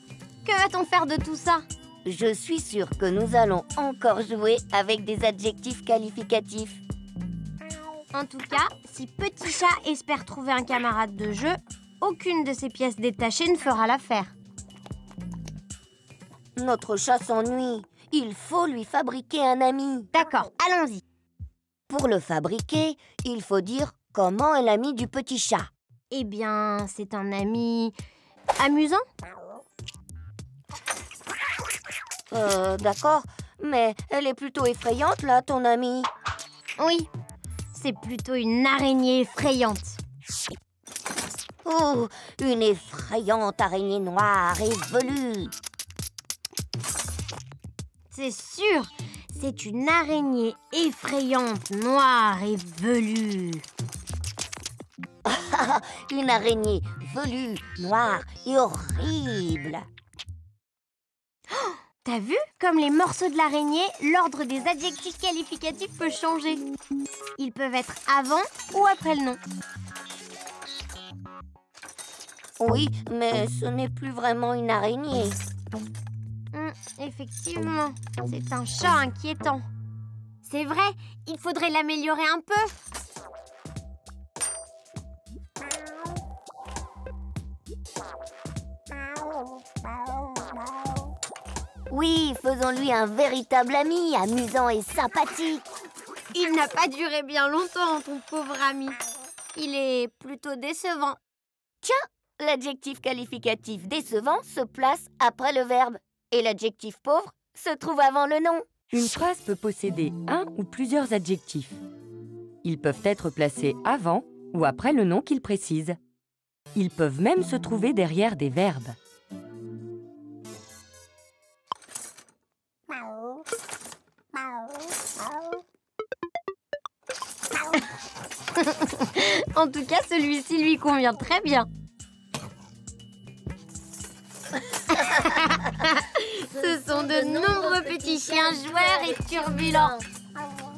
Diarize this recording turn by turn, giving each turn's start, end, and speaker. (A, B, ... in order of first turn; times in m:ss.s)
0:00.4-0:01.6 A
0:02.0-0:06.8 B
0:08.1-0:14.3 A
0:16.6-0:20.1 B
0:20.1-0:21.0 A
0:21.9-0:25.7 B
0:26.1-0:27.9 A
0:28.6-0:29.0 A
0:32.3-0:36.1 B
0:36.8-0:37.1 A
0:37.7-0:40.0 A
0:41.6-0:45.5 B
0:48.1-0:53.6 A
0:55.2-0:59.8 B
1:01.5-1:06.6 A
1:07.4-1:09.4 A
1:12.6-1:15.4 B
1:16.5-1:19.6 A
1:20.4-1:22.8 A
1:31.9-1:35.7 B
1:36.3-1:39.0 A
1:39.5-1:41.2 A
1:41.8-1:48.7 B
1:48.9-1:51.8 C
1:52.6-1:56.0 C
1:56.7-1:59.0 C
2:08.6-2:11.7 A
2:14.9-2:20.0 A